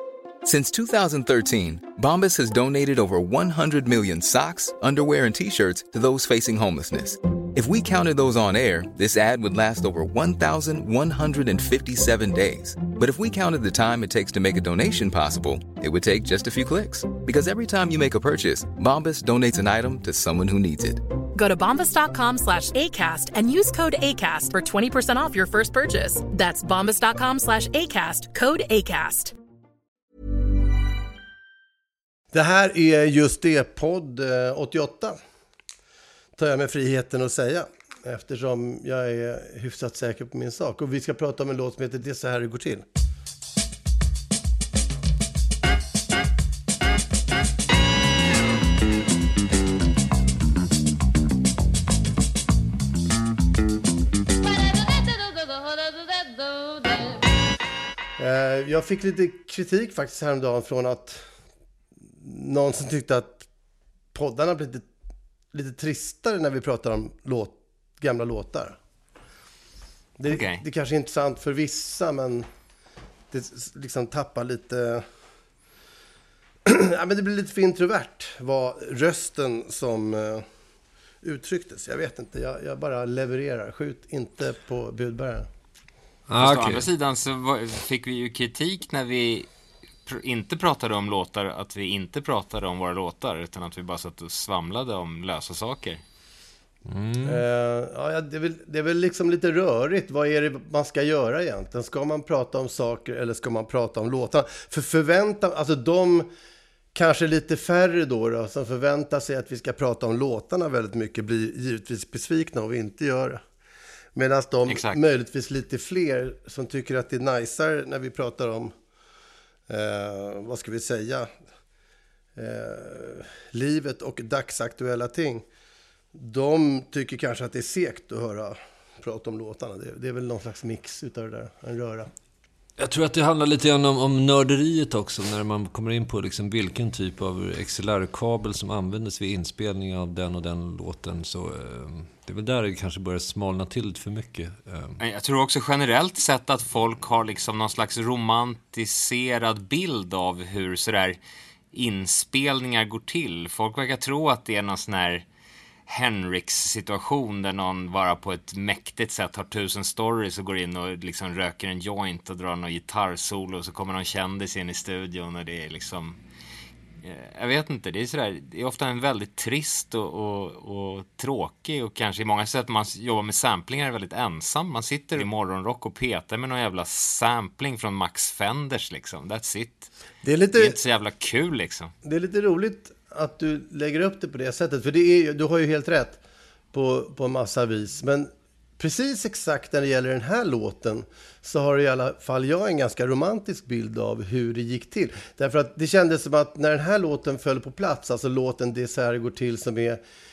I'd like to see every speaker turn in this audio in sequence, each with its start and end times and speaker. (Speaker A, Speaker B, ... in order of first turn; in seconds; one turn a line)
Speaker A: 0.4-21.0
Speaker B: 21.4-29.3
Speaker C: 32.3-35.2
Speaker C: 36.4-42.8
Speaker C: 58.2-61.2
Speaker C: 62.2-63.5
Speaker C: 64.1-64.9
Speaker C: 65.5-68.8
Speaker C: 70.2-72.5
Speaker D: 70.3-70.6
Speaker C: 73.3-75.0
Speaker C: 76.6-80.4
Speaker C: 81.2-85.5
Speaker E: 86.3-86.9
Speaker D: 86.4-89.5
Speaker D: 90.0-96.0
Speaker E: 96.9-97.4
Speaker C: 97.2-106.3
Speaker C: 106.9-113.4
Speaker C: 114.1-118.7
Speaker D: 114.7-115.0
Speaker C: 119.7-121.3
Speaker C: 122.3-125.4
Speaker C: 126.1-132.1
Speaker E: 132.8-145.0
Speaker D: 145.0-151.2
Speaker D: 151.7-155.2
Speaker D: 155.9-166.2
Speaker D: 167.0-179.9
Speaker C: 180.2-180.8
Speaker D: 180.5-181.9
Speaker C: 182.0-186.2
Speaker C: 186.7-200.0